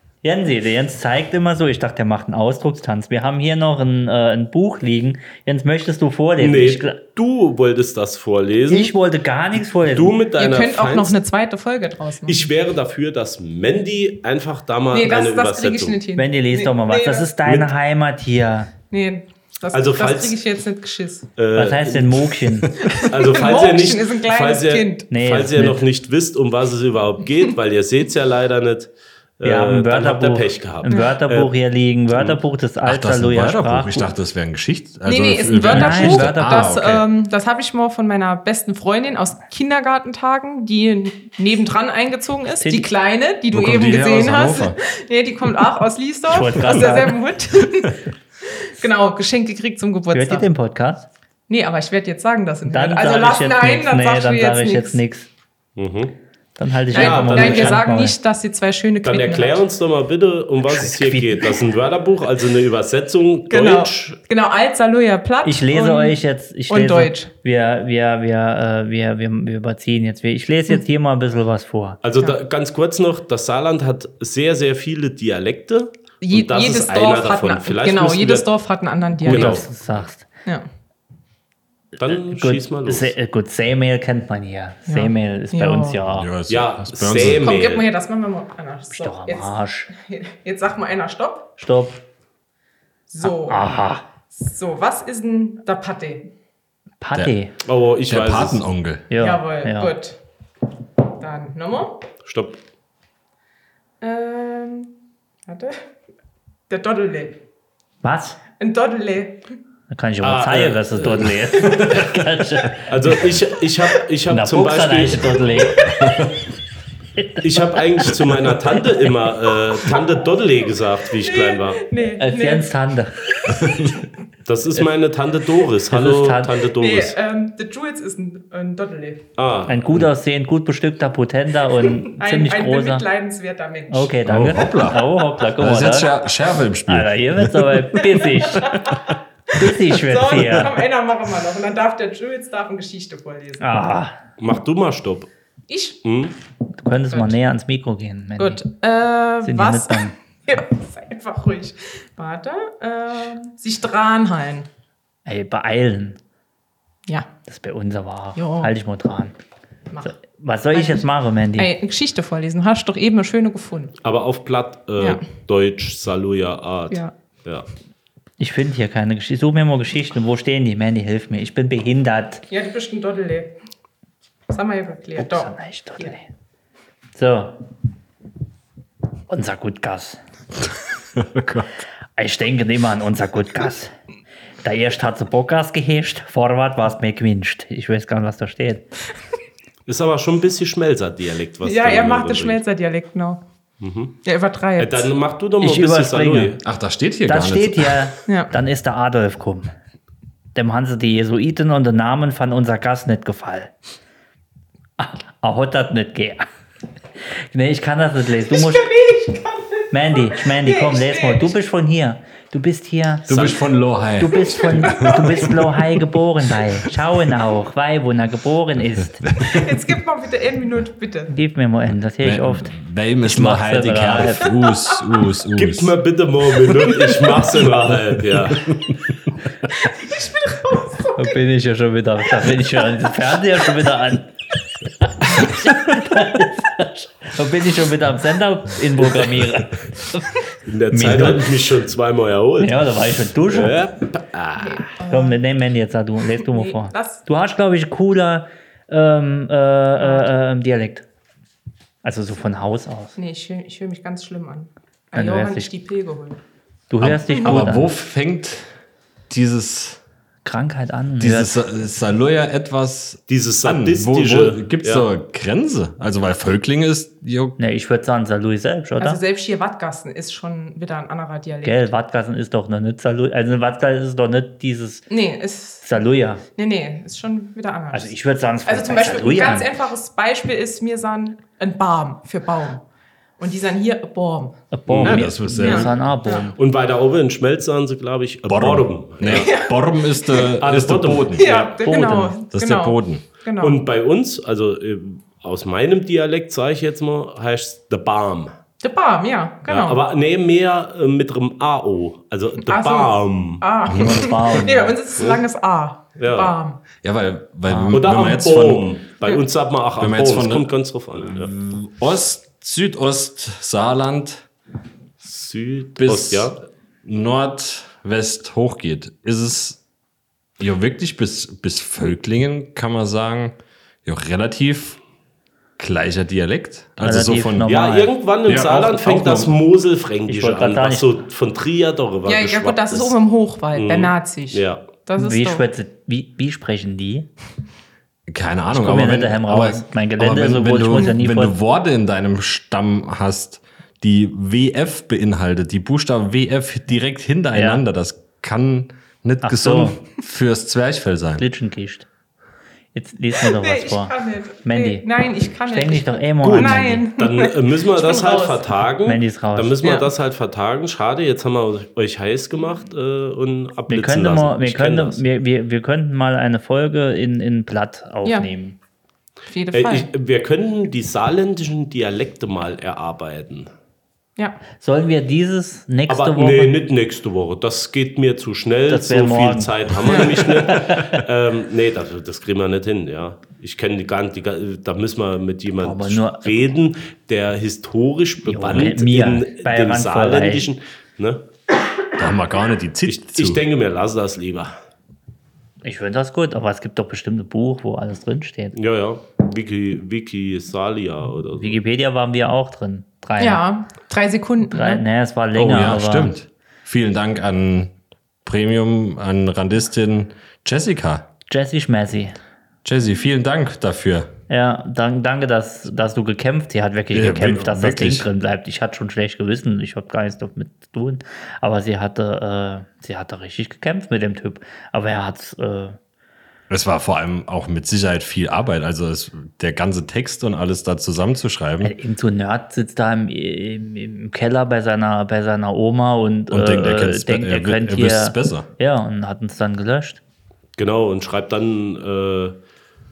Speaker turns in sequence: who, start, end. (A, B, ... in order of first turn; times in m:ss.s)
0:00.2-0:07.0 A
0:06.4-0:08.9 B
0:08.7-0:10.1 A
0:09.8-0:11.2 B
0:10.4-0:12.5 C
0:12.3-0:16.0 B
0:14.9-0:17.3 C
0:16.2-0:18.7 A
0:17.4-0:17.7 B
0:18.9-0:21.3 C
0:19.7-0:20.4 B
0:21.4-0:22.3 B
0:21.6-0:22.7 A
0:22.9-0:25.0 C
0:23.0-0:31.5 B
0:25.1-0:25.8 A
0:29.4-0:34.1 A
0:30.9-0:31.2 C
0:32.1-0:32.4 B
0:32.8-0:37.1 D
0:35.1-0:50.5 C
0:35.7-0:36.7 A
0:42.6-0:42.9 A
0:43.5-0:44.8 D
0:46.3-0:47.2 A
0:50.1-0:51.1 A
0:51.5-0:55.0 C
0:52.7-0:55.3 A
0:55.8-0:56.2 B
0:56.6-0:58.2 A
0:56.9-0:59.6 C
0:56.9-0:57.8 B
0:59.0-1:04.2 B
1:00.6-1:01.6 A
1:03.5-1:07.3 C
1:05.4-1:12.0 A
1:12.0-1:18.5 B
1:16.2-1:19.7 C
1:19.2-1:19.6 B
1:19.2-1:20.3 A
1:22.0-1:23.1 B
1:22.0-1:26.3 A
1:24.9-1:26.0 C
1:26.2-1:27.4 D
1:26.5-1:27.9 B
1:27.3-1:31.5 C
1:28.9-1:29.9 A
1:31.6-1:32.0 A
1:33.1-1:33.7 C
1:33.2-1:34.0 A
1:34.3-1:36.3 C
1:37.0-1:37.6 A
1:37.6-1:38.6 B
1:38.1-1:39.1 D
1:39.1-1:39.9 A
1:39.2-1:40.2 C
1:41.1-1:42.0 C
1:42.3-1:42.6 B
1:44.0-1:44.9 C
1:45.5-1:45.8 C
1:46.7-1:47.4 C
1:48.0-1:48.4 A
1:48.6-1:49.4 C
1:49.9-1:53.3 A
1:50.2-1:52.2 B
1:52.7-1:55.6 B
1:54.3-1:55.9 A
1:55.8-1:56.2 C
1:56.0-1:56.3 D
1:57.2-1:57.7 A
1:57.4-2:01.9 B
2:01.2-2:02.7 C
2:02.2-2:03.2 A
2:04.5-2:07.2 B
2:05.9-2:06.6 A
2:06.8-2:09.2 C
2:09.4-2:10.1 B
2:09.7-2:13.1 A
2:12.1-2:14.1 C
2:13.9-2:16.1 A
2:14.3-2:15.1 D
2:15.6-2:18.0 D
2:16.9-2:18.8 A
2:18.5-2:19.0 C
2:19.5-2:20.7 A
2:19.7-2:23.7 C
2:23.6-2:24.2 A
2:24.4-2:25.3 B
2:25.7-2:26.0 C
2:26.0-2:26.3 B
2:26.8-2:28.6 A
2:28.4-2:34.7 C
2:29.4-2:30.2 A
2:35.3-2:36.2 A
2:37.5-2:39.4 A
2:38.4-2:38.7 C
2:40.0-2:41.7 A
2:40.7-2:41.0 C
2:41.6-2:44.0 C
2:44.0-2:47.7 B
2:48.4-2:52.4 A
2:52.5-2:53.5 C
2:54.5-2:56.2 C
2:55.2-2:56.3 A
2:57.2-2:57.6 A
2:59.3-3:00.2 A
3:00.6-3:01.7 D
3:02.2-3:03.9 A
3:04.6-3:08.8 A
3:09.9-3:12.6 B
3:11.6-3:13.4 C
3:13.8-3:14.2 B
3:14.2-3:15.1 C
3:14.8-3:16.6 B
3:15.6-3:16.6 A
3:16.6-3:18.1 D
3:17.3-3:19.7 A
3:20.6-3:23.7 A
3:25.0-3:26.5 A
3:27.2-3:28.9 A
3:28.5-3:31.5 C
3:29.9-3:39.3 A
3:33.3-3:35.5 D
3:34.9-3:35.3 C
3:39.2-3:39.7 D
3:39.4-3:41.3 C
3:41.3-3:42.7 A
3:42.2-3:46.0 D
3:43.2-3:44.5 A
3:45.6-3:48.8 B
3:47.9-3:49.0 D
3:49.9-3:51.3 C
3:51.1-3:54.3 A
3:55.0-4:00.4 A
3:59.0-3:59.4 B
4:00.6-4:02.9 B
4:00.9-4:01.5 A
4:02.6-4:03.9 A
4:03.5-4:04.9 B
4:04.6-4:05.4 C
4:05.0-4:11.0 A
4:06.5-4:07.2 C
4:10.0-4:10.3 C
4:12.0-4:13.2 A
4:13.2-4:16.4 C
4:15.1-4:15.7 A
4:16.9-4:18.0 A
4:17.0-4:18.7 D
4:19.3-4:20.0 D
4:20.4-4:21.6 A
4:21.2-4:27.6 D
4:23.3-4:25.1 B
4:27.6-4:29.2 A
4:29.0-4:31.8 C
4:31.6-4:35.1 A
4:35.1-4:35.9 C
4:35.8-4:36.4 A
4:36.6-4:38.1 C
4:37.9-4:39.7 A
4:38.6-4:42.8 C
4:43.4-4:44.6 C
4:44.7-4:46.6 A
4:44.9-4:45.3 B
4:44.9-4:45.9 D
4:45.6-4:46.5 C
4:46.6-4:49.5 B
4:48.5-4:53.2 D
4:49.3-4:50.5 C
4:50.6-4:51.8 B
4:51.4-4:53.8 C
4:53.6-4:58.5 B
4:58.8-5:00.0 C
4:59.7-5:03.6 B
5:02.6-5:06.8 C
5:03.9-5:04.6 D
5:04.0-5:05.0 A
5:05.2-5:05.4 B
5:06.2-5:06.5 B
5:07.0-5:08.9 D
5:07.7-5:08.0 A
5:07.9-5:11.5 B
5:10.0-5:10.7 D
5:11.3-5:14.5 D
5:15.2-5:16.6 B
5:16.0-5:19.8 D
5:20.6-5:25.0 D
5:25.8-5:27.6 D
5:27.0-5:28.1 A
5:27.7-5:33.2 B
5:28.5-5:29.5 D
5:30.3-5:31.2 A
5:32.3-5:35.6 C
5:33.7-5:34.8 B
5:35.2-5:37.3 A
5:38.3-5:51.4 D
5:38.7-5:41.6 A
5:47.5-5:47.8 A
5:49.4-5:50.0 A
5:51.4-5:52.1 A
5:52.9-5:55.0 A
5:53.4-5:58.7 C
5:55.7-5:57.0 A
5:56.4-6:05.2 B
5:59.1-5:59.9 A
5:59.8-6:00.1 C
6:03.9-6:08.8 A
6:09.5-6:10.1 C
6:09.7-6:13.7 B
6:14.8-6:16.8 A
6:16.1-6:31.4 B
6:18.9-6:21.2 A
6:20.1-6:20.4 C
6:25.8-6:26.8 A
6:28.4-6:30.6 A
6:32.2-6:33.6 D
6:33.1-6:34.7 B
6:35.8-6:38.8 A
6:38.8-6:41.8 B
6:41.6-6:43.6 A
6:43.4-6:45.0 C
6:44.7-6:46.4 A
6:45.6-6:47.9 D
6:48.4-6:51.3 D
6:51.5-6:52.4 A
6:52.8-6:54.3 D
6:54.5-7:06.0 A
6:57.1-6:58.3 D
7:06.7-7:11.9 D
7:11.8-7:20.2 A
7:16.5-7:18.7 D
7:20.8-7:22.6 B